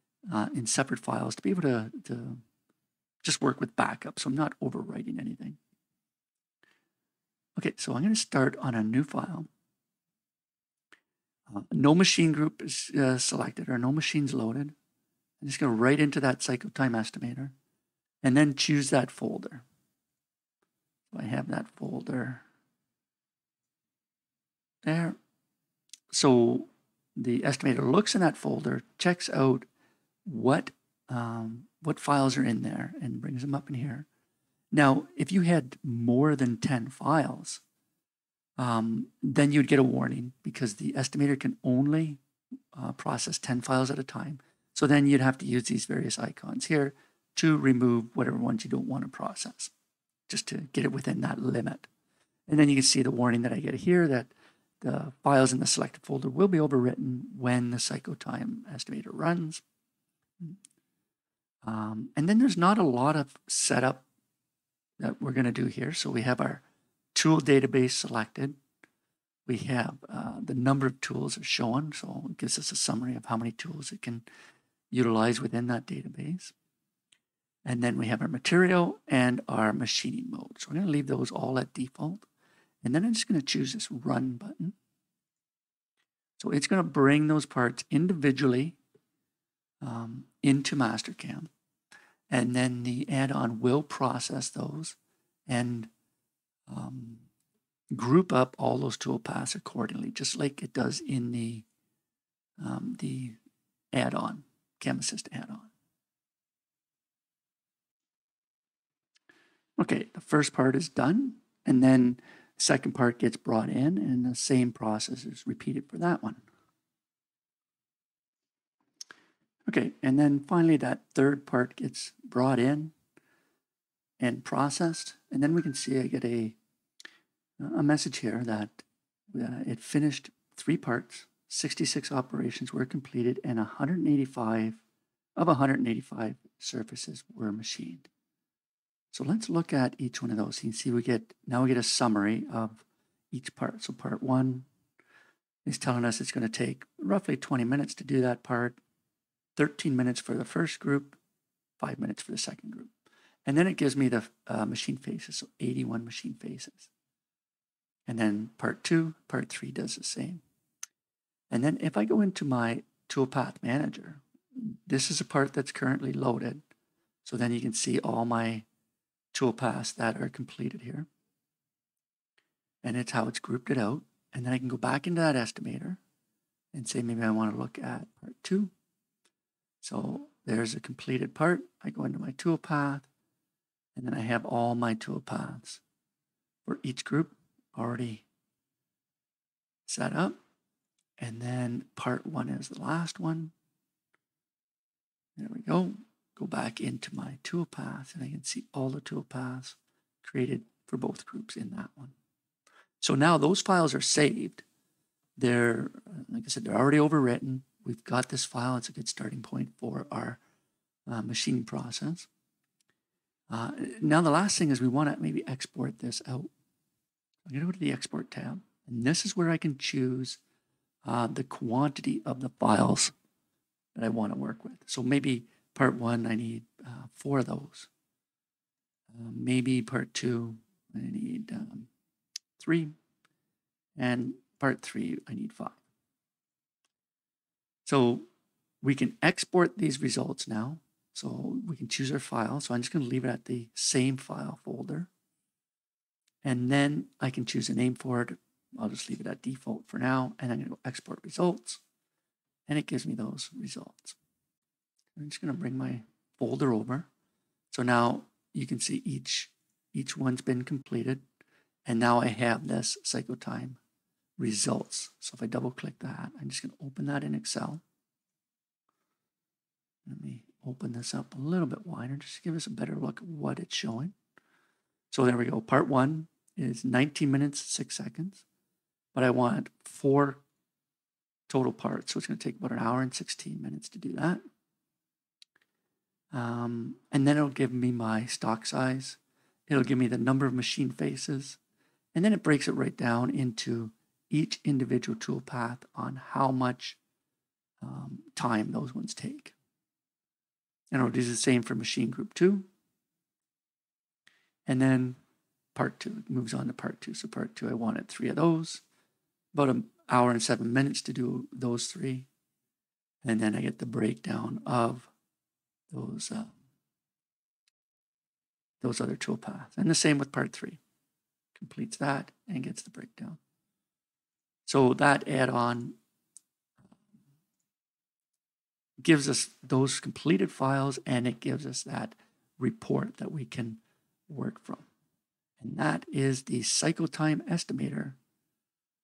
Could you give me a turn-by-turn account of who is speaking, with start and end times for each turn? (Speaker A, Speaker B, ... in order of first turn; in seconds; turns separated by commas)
Speaker A: 0.3-2.4, Speaker A: 3.2-5.6, Speaker A: 7.6-9.5, Speaker A: 11.5-14.8, Speaker A: 15.4-17.5, Speaker A: 18.2-19.6, Speaker A: 21.1-22.4, Speaker A: 24.8-25.2, Speaker A: 26.1-29.7, Speaker A: 30.2-34.1, Speaker A: 34.7-37.6, Speaker A: 38.6-42.2, Speaker A: 42.7-49.7, Speaker A: 50.3-51.9, Speaker A: 52.5-59.6, Speaker A: 61.6-64.0, Speaker A: 65.0-68.6, Speaker A: 69.5-74.2, Speaker A: 74.9-76.5, Speaker A: 77.6-82.2, Speaker A: 82.8-84.8, Speaker A: 86.4-88.8, Speaker A: 89.8-91.5, Speaker A: 92.3-95.9, Speaker A: 96.7-97.3, Speaker A: 97.9-101.7, Speaker A: 102.6-103.4, Speaker A: 103.9-105.7, Speaker A: 109.8-116.4, Speaker A: 119.7-122.9, Speaker A: 124.2-126.6, Speaker A: 127.6-134.8, Speaker A: 135.3-138.1, Speaker A: 139.1-144.7, Speaker A: 145.7-148.8, Speaker A: 149.6-151.2, Speaker A: 151.8-152.9, Speaker A: 153.4-156.9, Speaker A: 158.1-160.4, Speaker A: 161.5-166.6, Speaker A: 167.2-168.7, Speaker A: 169.3-171.1, Speaker A: 172.8-176.0, Speaker A: 176.7-178.7, Speaker A: 179.8-183.1, Speaker A: 183.9-185.8, Speaker A: 186.6-188.3, Speaker A: 189.8-190.4, Speaker A: 191.2-193.5, Speaker A: 195.3-202.1, Speaker A: 203.0-204.7, Speaker A: 205.4-210.4, Speaker A: 211.1-212.3, Speaker A: 213.5-216.5, Speaker A: 217.4-220.4, Speaker A: 221.0-223.1, Speaker A: 223.9-227.9, Speaker A: 229.1-231.9, Speaker A: 232.6-232.9, Speaker A: 234.0-235.8, Speaker A: 237.8-238.2, Speaker A: 238.8-245.1, Speaker A: 246.4-251.8, Speaker A: 252.7-254.2, Speaker A: 255.2-257.1, Speaker A: 257.7-261.2, Speaker A: 261.9-263.8, Speaker A: 264.4-267.8, Speaker A: 270.1-274.1, Speaker A: 275.1-278.4, Speaker A: 279.1-280.4, Speaker A: 281.5-284.4, Speaker A: 286.3-291.6, Speaker A: 292.1-297.0, Speaker A: 297.8-299.5, Speaker A: 300.9-302.7, Speaker A: 304.6-305.2, Speaker A: 305.7-308.8, Speaker A: 309.5-312.3, Speaker A: 313.2-315.1, Speaker A: 315.9-316.6, Speaker A: 318.8-320.8, Speaker A: 321.5-323.4, Speaker A: 324.6-326.0, Speaker A: 329.0-334.9, Speaker A: 335.6-338.2